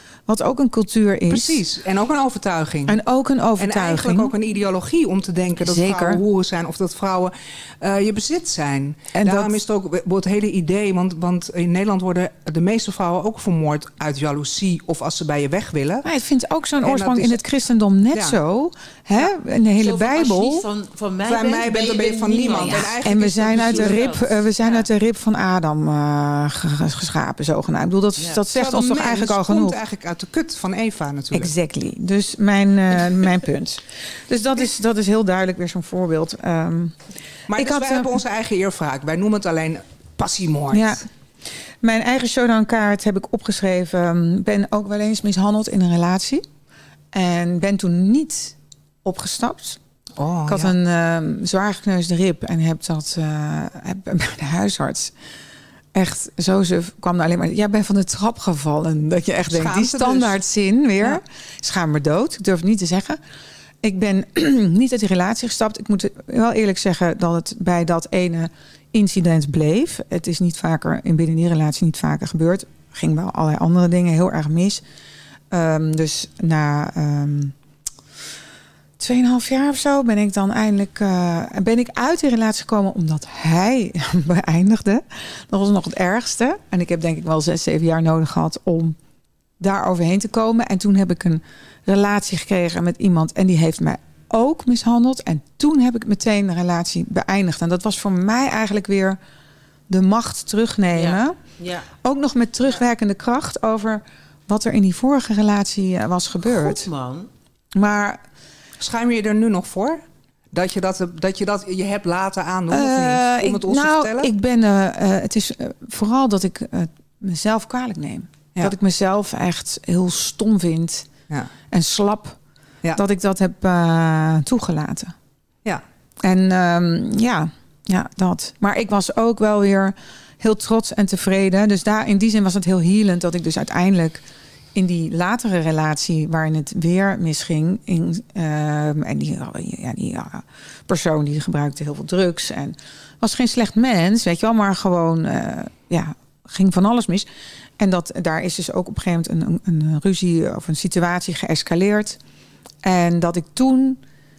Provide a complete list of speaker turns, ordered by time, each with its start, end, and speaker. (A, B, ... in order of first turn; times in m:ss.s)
0:00.2-0:01.6 A
0:01.3-0:03.0 B
0:02.9-0:04.3 A
0:03.6-0:16.1 B
0:05.6-0:06.2 A
0:09.1-0:09.5 A
0:16.0-0:20.6 A
0:16.8-0:17.4 B
0:18.1-0:18.4 B
0:19.8-0:24.9 C
0:21.2-0:24.2 B
0:22.5-0:29.8 A
0:28.2-0:28.4 C
0:28.5-0:31.5 B
0:31.3-0:37.0 A
0:37.5-0:41.0 B
0:37.5-0:38.2 A
0:40.7-0:41.0 A
0:41.8-0:46.4 A
0:47.1-0:49.8 A
0:50.2-0:50.7 B
0:50.5-0:55.1 A
0:55.9-1:03.2 A
0:59.5-1:00.4 B
1:03.8-1:14.8 A
1:15.5-1:17.5 A
1:19.0-1:29.0 A
1:29.6-1:39.2 A
1:39.9-1:41.4 A
1:40.9-1:41.9 C
1:41.9-1:46.9 A
1:46.4-1:47.3 C
1:47.7-1:48.2 A
1:48.8-1:54.3 B
1:52.7-2:01.1 A
2:01.7-2:02.4 A
2:03.0-2:05.1 A
2:06.2-2:14.2 A
2:14.7-2:27.3 A
2:27.8-2:32.2 A
2:32.8-2:34.0 A